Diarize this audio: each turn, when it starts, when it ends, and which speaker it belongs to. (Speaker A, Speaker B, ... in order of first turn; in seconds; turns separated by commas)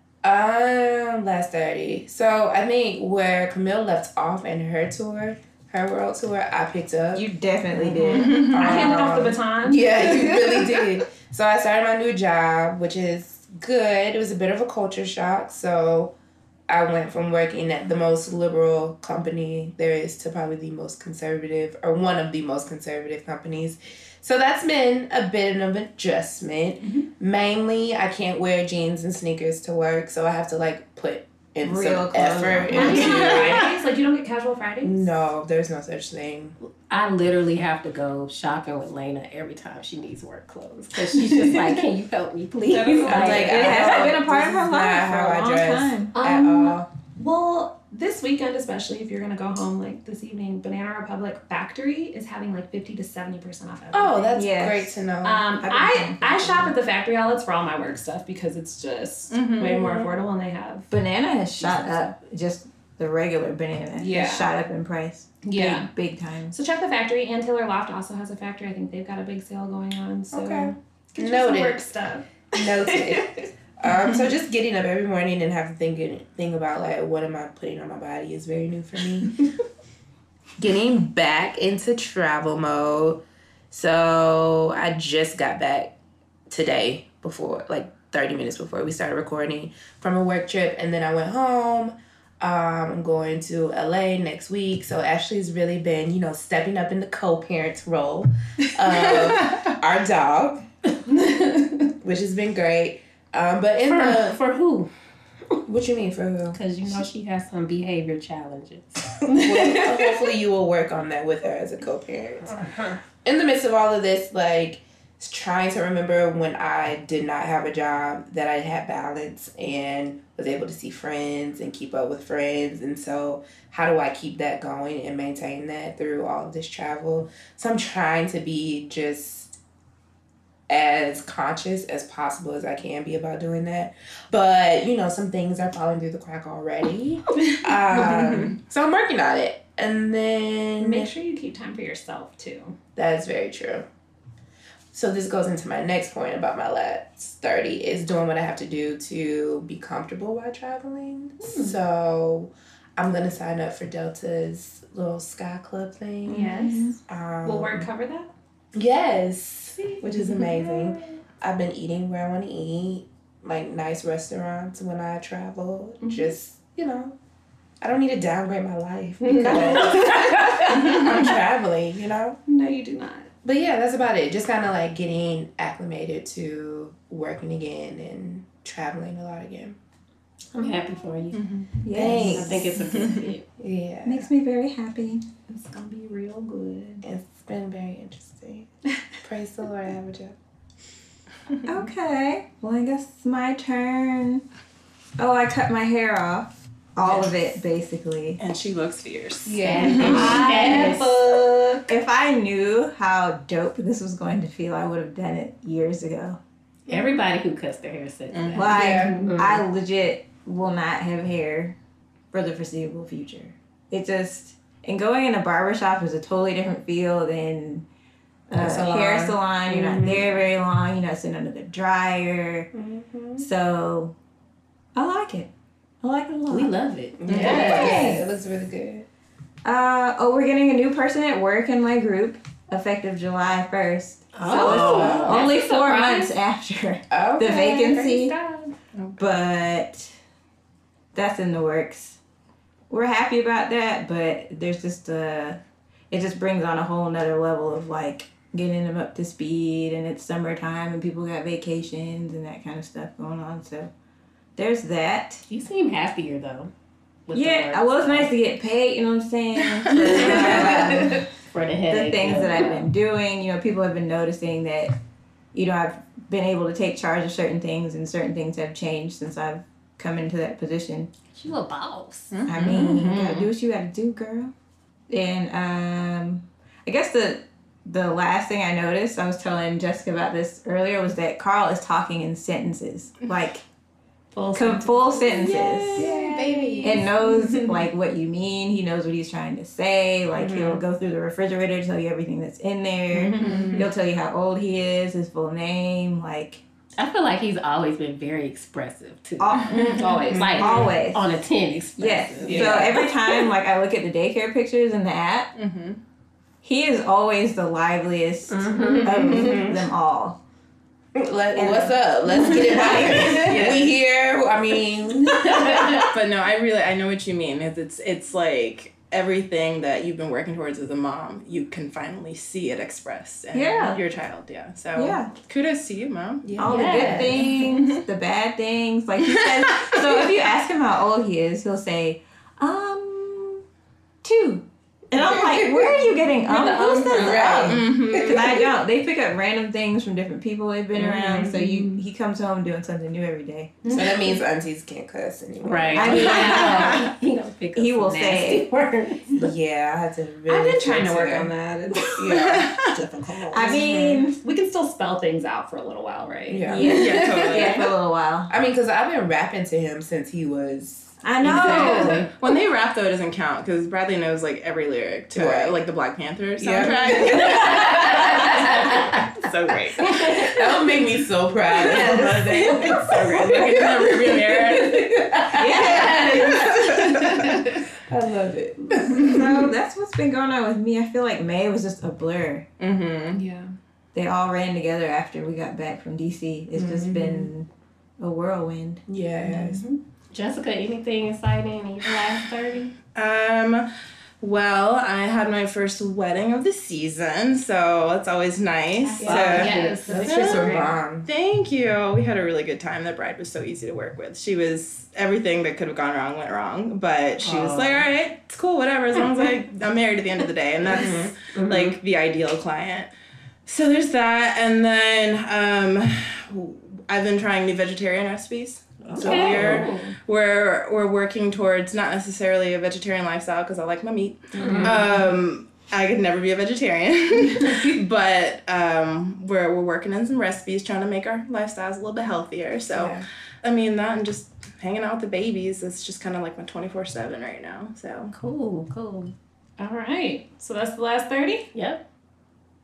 Speaker A: 0.2-16.1, Speaker B: 7.1-9.0, Speaker C: 8.1-10.2, Speaker D: 8.2-8.6, Speaker B: 10.1-10.6, Speaker A: 16.7-33.8, Speaker B: 31.6-33.5, Speaker C: 32.7-35.1, Speaker D: 33.0-33.5, Speaker A: 34.8-36.6, Speaker E: 36.9-43.8, Speaker C: 42.7-43.7, Speaker A: 43.0-46.9, Speaker B: 43.0-46.7, Speaker C: 46.2-54.5, Speaker A: 53.9-55.5, Speaker B: 54.4-55.0, Speaker C: 55.2-60.9, Speaker B: 55.6-56.8, Speaker D: 59.3-59.9, Speaker B: 60.9-66.5, Speaker C: 64.0-64.5, Speaker C: 65.4-65.9, Speaker C: 66.5-73.4, Speaker A: 70.3-71.8, Speaker A: 72.5-79.5, Speaker A: 80.6-83.2, Speaker A: 83.7-86.0, Speaker A: 86.5-100.6, Speaker D: 99.0-99.7, Speaker C: 101.2-101.8, Speaker A: 102.0-104.4, Speaker E: 103.8-104.9, Speaker A: 105.7-106.6, Speaker E: 106.5-109.2, Speaker A: 109.4-129.6, Speaker C: 109.4-110.3, Speaker A: 130.7-141.1, Speaker D: 138.1-138.5, Speaker C: 140.8-142.8, Speaker A: 143.0-143.9, Speaker A: 144.9-157.9, Speaker C: 151.4-151.8, Speaker B: 156.3-157.0, Speaker C: 156.3-158.3, Speaker A: 158.7-167.2, Speaker C: 159.8-161.0, Speaker C: 166.0-166.3, Speaker A: 167.8-172.4, Speaker C: 169.2-170.7, Speaker C: 172.5-173.3, Speaker A: 173.4-179.8, Speaker E: 180.5-183.5, Speaker D: 181.3-181.7, Speaker B: 181.8-182.8, Speaker A: 181.9-183.0, Speaker D: 182.9-183.3, Speaker A: 183.6-184.3, Speaker B: 184.1-185.3, Speaker C: 185.5-187.1, Speaker A: 187.0-188.7, Speaker A: 189.2-190.4, Speaker B: 191.7-194.4, Speaker B: 195.2-198.4, Speaker D: 197.0-197.3, Speaker D: 198.4-200.4, Speaker A: 199.5-201.7, Speaker E: 199.6-201.2, Speaker B: 199.8-201.2, Speaker B: 201.8-206.4, Speaker E: 206.9-209.6, Speaker D: 208.3-209.1, Speaker B: 208.5-211.8, Speaker A: 208.7-209.2, Speaker B: 212.3-217.9, Speaker B: 218.5-222.7, Speaker A: 218.5-220.3, Speaker A: 222.7-223.5, Speaker B: 223.4-224.1, Speaker B: 224.9-225.5, Speaker B: 226.0-226.8, Speaker E: 226.5-228.2, Speaker A: 227.2-229.1, Speaker B: 227.3-228.3, Speaker D: 227.4-227.6, Speaker B: 229.6-238.3, Speaker E: 234.3-236.2, Speaker A: 234.5-235.5, Speaker D: 234.6-235.6, Speaker C: 235.8-236.2, Speaker A: 237.1-238.0, Speaker C: 237.4-238.8, Speaker B: 239.2-240.1, Speaker B: 241.1-242.2, Speaker B: 242.9-245.6, Speaker B: 246.1-253.9, Speaker B: 254.6-255.4, Speaker E: 255.5-256.7, Speaker E: 257.3-258.3, Speaker B: 257.3-261.3, Speaker D: 259.8-260.3, Speaker E: 260.2-262.9, Speaker A: 260.2-261.1, Speaker B: 261.9-264.9, Speaker B: 265.5-271.1, Speaker E: 271.3-272.4, Speaker D: 272.3-273.1, Speaker B: 272.5-274.5, Speaker C: 272.5-273.5, Speaker B: 275.1-283.6, Speaker E: 284.4-285.9, Speaker B: 284.5-286.1, Speaker A: 286.0-287.5, Speaker D: 286.0-287.0, Speaker B: 286.8-296.6, Speaker A: 290.3-290.8, Speaker A: 293.2-293.8, Speaker D: 293.4-293.9, Speaker E: 297.0-302.9, Speaker B: 299.4-301.3, Speaker C: 299.7-300.9, Speaker A: 299.8-300.6, Speaker B: 302.0-305.5, Speaker A: 302.4-303.1, Speaker D: 305.6-306.0, Speaker B: 306.6-310.4, Speaker E: 308.5-309.4, Speaker A: 309.1-309.8, Speaker D: 309.1-309.8, Speaker A: 311.1-316.1, Speaker B: 311.5-313.9, Speaker D: 313.3-313.7, Speaker D: 315.7-328.0, Speaker B: 323.5-324.0, Speaker B: 324.9-325.3, Speaker A: 326.4-327.3, Speaker B: 326.6-333.6, Speaker E: 326.7-327.3, Speaker D: 329.3-330.3, Speaker B: 334.2-344.0, Speaker A: 335.1-336.1, Speaker C: 336.5-337.5, Speaker A: 337.1-338.7, Speaker D: 337.1-338.6, Speaker A: 341.0-341.6, Speaker D: 341.2-341.5, Speaker C: 341.5-341.9, Speaker A: 343.9-346.9, Speaker C: 344.0-344.2, Speaker E: 345.6-349.5, Speaker B: 345.9-347.1, Speaker D: 346.1-346.8, Speaker B: 347.8-348.7, Speaker A: 349.4-354.2, Speaker C: 350.5-352.2, Speaker D: 352.0-353.0, Speaker B: 353.5-354.4, Speaker C: 353.6-356.9, Speaker A: 356.5-357.9, Speaker B: 356.7-358.5, Speaker D: 356.8-357.9, Speaker A: 358.5-362.3, Speaker B: 361.2-362.2, Speaker D: 361.4-370.4, Speaker A: 365.3-365.8, Speaker A: 366.6-369.0, Speaker A: 370.0-379.7, Speaker B: 371.8-372.4, Speaker D: 371.9-377.7, Speaker B: 375.6-376.8, Speaker B: 379.1-382.7, Speaker D: 382.8-383.4, Speaker C: 383.3-383.8, Speaker B: 384.1-387.7, Speaker A: 386.7-387.5, Speaker B: 388.2-389.0, Speaker A: 389.1-389.9, Speaker C: 389.5-389.9, Speaker E: 390.3-392.9, Speaker D: 393.1-393.9, Speaker D: 394.4-413.1, Speaker A: 399.2-401.3, Speaker E: 399.2-400.4, Speaker C: 399.3-400.9, Speaker E: 407.4-408.1, Speaker A: 410.8-411.3, Speaker E: 411.5-412.0, Speaker D: 413.7-438.3, Speaker E: 419.1-420.1, Speaker A: 419.2-419.8, Speaker B: 419.4-419.7, Speaker E: 424.6-425.0, Speaker C: 424.6-425.0, Speaker A: 424.6-425.0, Speaker A: 432.9-433.2, Speaker E: 438.3-439.3, Speaker C: 439.8-441.7, Speaker E: 441.7-442.0